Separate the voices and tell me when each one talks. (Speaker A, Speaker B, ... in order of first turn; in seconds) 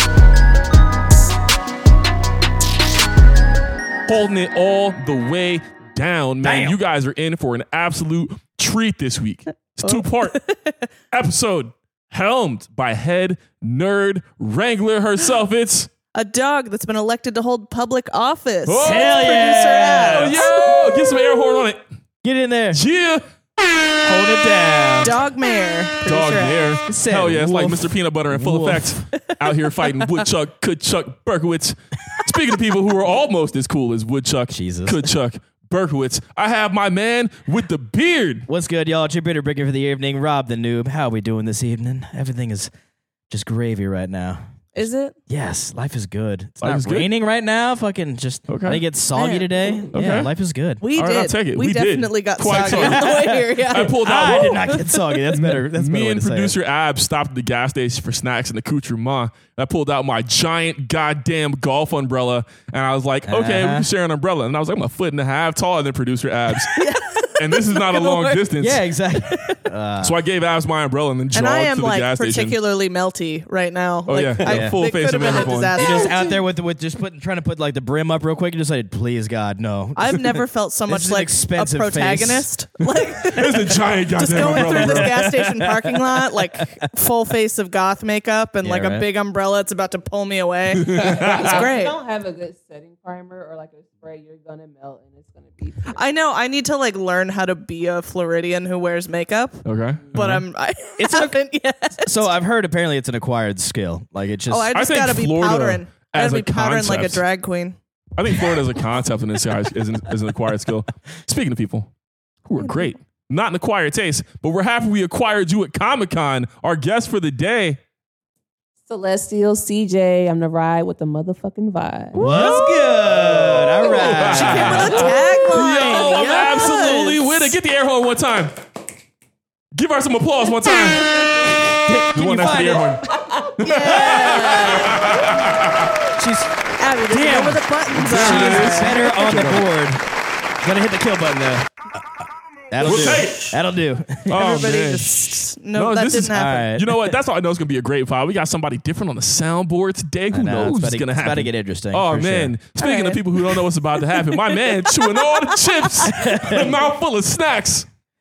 Speaker A: 4.1-10.4, 11.1-15.9, 18.6-19.4, 20.1-21.8, 22.7-23.2, 26.0-38.5, 46.6-47.1, 48.5-48.8, 49.9-50.3, 50.9-54.8, 55.3-66.8, 67.4-68.8, 70.0-72.5, 74.1-75.8, 83.2-85.8, 90.8-91.6, 99.6-100.5, 104.7-107.2, 108.2-111.9, 112.5-117.8, 122.2-122.6, 123.8-128.5, 129.7-131.5, 132.1-135.9, 137.9-139.7, 142.8-143.6, 144.3-157.9
Speaker B: 6.4-6.8, 18.8-20.4, 22.2-22.8, 24.0-25.1, 26.9-29.1, 34.5-35.0, 38.5-42.7, 43.3-50.8, 52.4-56.5, 63.3-63.9, 68.6-70.1, 74.4-74.8, 75.8-82.5, 84.4-85.3, 86.3-86.8, 88.6-89.0, 101.0-101.3, 102.0-104.7, 122.1-125.1, 131.4-133.0, 136.1-136.5, 137.1-140.0, 140.6-142.0, 142.7-144.3, 146.3-147.1, 150.3-152.5, 156.0-156.8
Speaker C: 9.8-10.8, 16.1-20.9, 25.0-26.7, 44.8-45.1, 49.1-49.8, 50.8-54.8, 66.6-68.4, 69.3-69.6, 71.3-76.4, 80.0-92.0, 95.9-102.2, 104.5-107.8, 122.2-123.2, 124.2-127.5, 133.6-135.4, 136.8-139.5, 142.8-143.5, 144.3-146.7, 152.8-153.2, 154.3-155.4
Speaker D: 90.9-96.0, 118.9-122.3